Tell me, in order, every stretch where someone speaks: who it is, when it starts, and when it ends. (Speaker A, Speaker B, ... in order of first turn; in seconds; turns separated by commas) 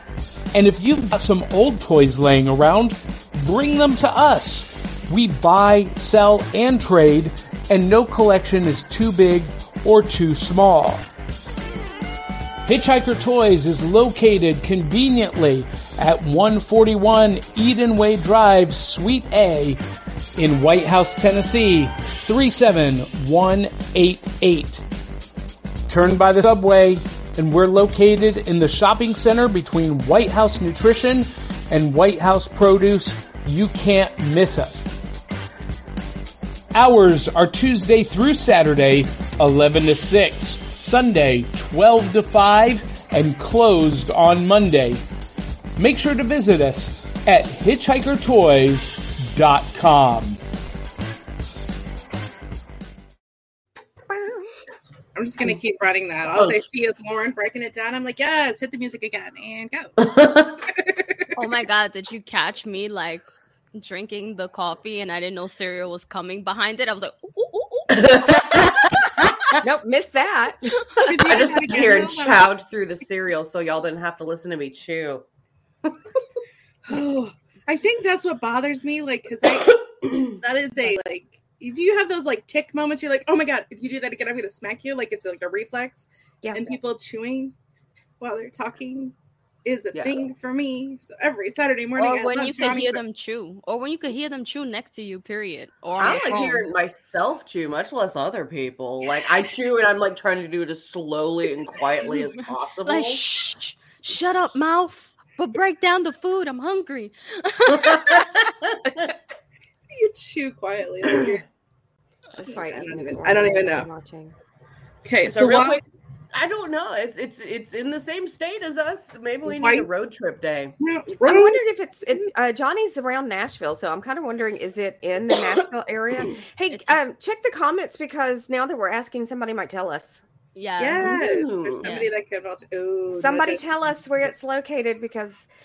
Speaker A: 0.5-11.0, Speaker A: 12.7-19.8, Speaker A: 20.4-24.8, Speaker A: 25.9-34.9, Speaker A: 36.7-45.0, Speaker A: 45.8-50.4, Speaker B: 54.1-54.5, Speaker C: 55.1-60.1, Speaker D: 56.3-56.6, Speaker D: 60.0-60.6, Speaker C: 60.7-61.1, Speaker E: 61.4-68.3, Speaker D: 67.9-69.5, Speaker B: 69.6-70.7, Speaker C: 71.0-72.5, Speaker D: 71.3-75.2, Speaker C: 76.8-87.5, Speaker B: 86.4-86.7, Speaker C: 88.2-89.1, Speaker C: 89.6-93.0, Speaker D: 89.9-90.2, Speaker E: 92.0-96.7, Speaker D: 96.0-103.2, Speaker E: 102.8-108.3, Speaker D: 107.7-109.1, Speaker C: 109.9-111.4, Speaker B: 112.3-114.3, Speaker C: 112.5-113.9, Speaker C: 115.0-115.8, Speaker D: 115.3-115.8, Speaker D: 116.3-120.7, Speaker C: 119.5-120.0, Speaker C: 120.8-121.6, Speaker B: 121.2-130.2, Speaker E: 126.7-127.0, Speaker E: 130.5-131.2, Speaker C: 130.8-133.7, Speaker D: 131.0-131.8, Speaker E: 131.8-132.1, Speaker B: 133.1-135.5